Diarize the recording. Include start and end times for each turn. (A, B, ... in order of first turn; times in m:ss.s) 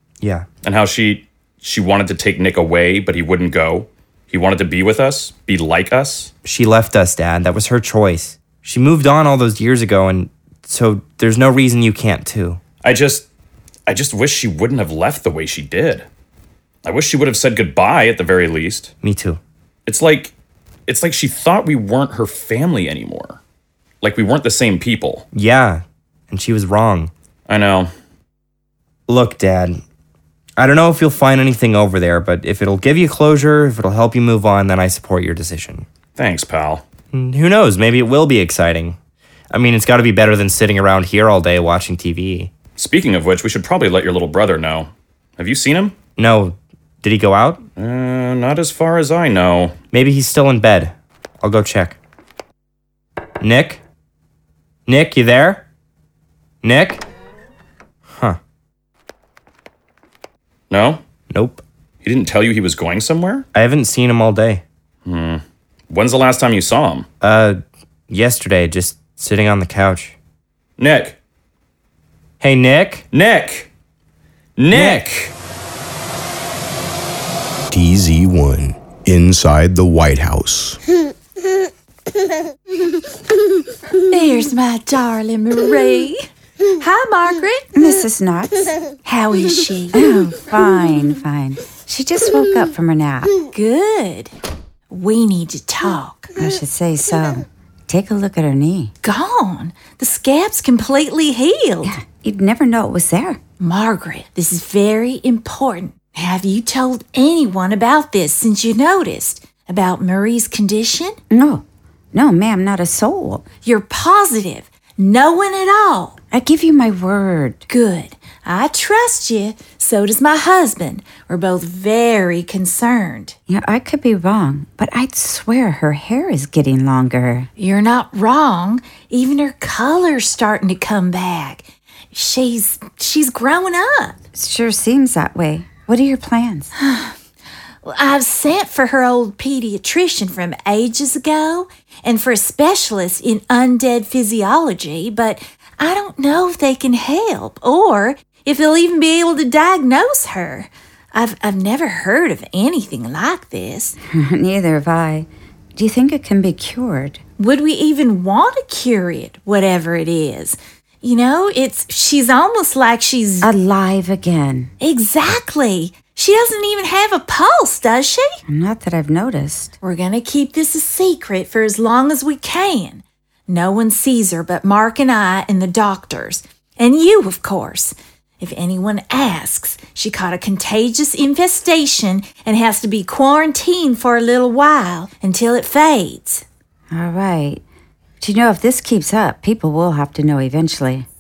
0:00.2-0:00.5 A
0:00.6-0:06.3 B
0:06.4-0:12.6 A
0:12.8-0:13.3 B
0:13.9-0:16.1 B
0:16.8-0:18.9 B
0:19.0-0:19.4 A
0:19.9-0:20.3 B
0:20.9-0:23.4 B
0:24.0-0:25.2 B
0:25.3-0:27.1 A
0:27.5-0:27.9 B
0:29.1-0:29.8 A
0:30.6-0:35.9 A
0:36.2-0:36.8 B
0:37.1-0:39.0 A
0:39.5-0:42.5 A
0:42.8-0:46.0 B
0:46.2-0:47.6 A
0:47.8-0:49.8 B
0:49.9-0:52.0 A
0:53.4-0:53.8 A
0:54.9-0:55.6 A
0:56.6-0:57.0 A
1:00.7-1:01.0 B
1:01.3-1:01.6 A
1:02.0-1:03.5 B
1:03.5-1:04.6 A
1:05.0-1:07.1 B
1:07.2-1:10.1 A
1:10.8-1:11.2 B
1:12.4-1:13.1 A
1:13.1-1:13.7 B
1:14.6-1:15.3 B
1:14.7-1:15.0 A
1:17.7-1:20.8 C
1:24.1-1:27.8 D
1:27.8-1:28.7 E
1:29.0-1:30.1 D
1:29.9-1:33.4 E
1:33.5-1:34.3 D
1:34.9-1:36.3 D
1:36.4-1:38.9 E
1:39.0-1:41.9 D
1:41.8-1:43.4 E
1:43.6-1:51.2 D
1:51.3-1:53.5 E
1:53.6-1:56.2 D
1:56.3-1:57.6 E
1:57.7-2:03.4 D
2:03.5-2:07.5 E
2:07.6-2:14.2 D
2:14.4-2:16.7 E
2:16.8-2:17.2 D
2:17.8-2:34.0 D
2:34.1-2:37.2 E
2:37.4-2:43.5 D
2:43.4-2:44.7 E
2:44.8-2:48.4 D
2:48.5-2:49.7 E
2:49.8-3:06.4 D
3:06.9-3:07.6 E
3:08.2-3:11.1 E